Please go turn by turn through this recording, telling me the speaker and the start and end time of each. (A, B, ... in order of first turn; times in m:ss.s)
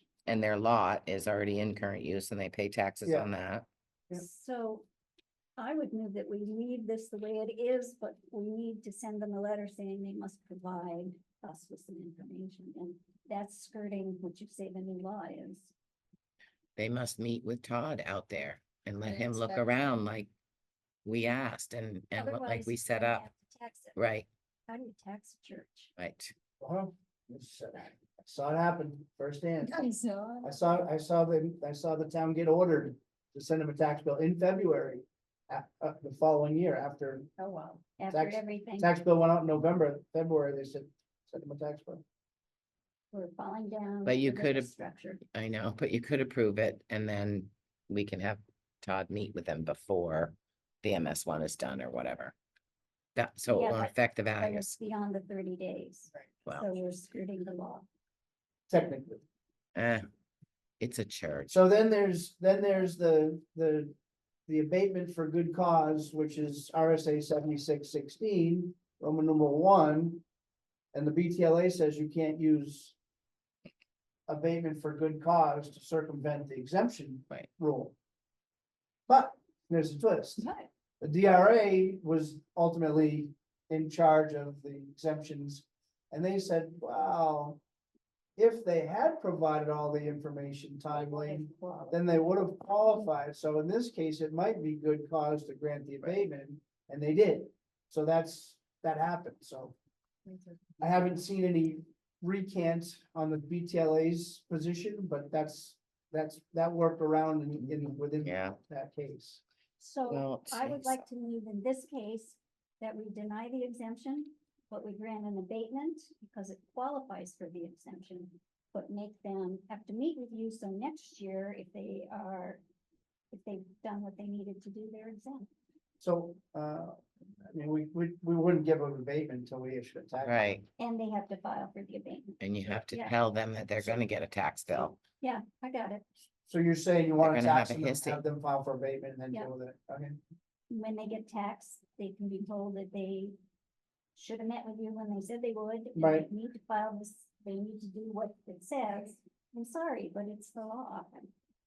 0:00.3-0:03.6 A
0:04.1-0:04.8 B
0:05.6-0:15.7 B
0:16.8-0:20.3 A
0:19.0-0:19.6 C
0:21.0-0:23.2 A
0:22.1-0:24.0 B
0:24.0-0:24.3 A
0:24.7-0:25.9 B
0:26.0-0:26.3 A
0:26.6-0:29.8 D
0:29.6-0:30.5 C
0:30.4-0:37.3 D
0:37.4-0:37.8 C
0:38.0-0:38.9 B
0:38.1-0:42.0 D
0:43.1-0:45.2 B
0:44.0-0:44.7 A
0:45.3-0:52.3 A
0:53.2-0:54.7 A
0:53.5-0:57.8 B
0:58.7-0:59.2 D
0:59.7-1:00.0 A
1:00.8-1:01.6 A
1:01.5-1:03.9 D
1:04.5-1:10.2 D
1:10.9-1:13.0 D
1:14.3-1:18.0 D
1:19.1-1:20.4 D
1:20.4-1:20.7 B
1:21.0-1:27.6 D
1:28.4-1:39.8 D
1:30.9-1:31.9 C
1:40.3-1:40.6 C
1:40.8-1:49.4 D
1:47.7-1:48.6 A
1:49.8-2:02.6 B
1:50.1-1:51.0 A
2:03.3-2:05.5 B
2:06.0-2:10.5 D
2:10.2-2:10.7 A
2:10.8-2:13.1 B
2:12.4-2:15.0 A
2:15.2-2:16.0 B
2:16.5-2:20.2 D
2:17.2-2:18.2 A
2:20.7-2:23.3 B
2:24.1-2:31.3 B
2:26.0-2:26.3 D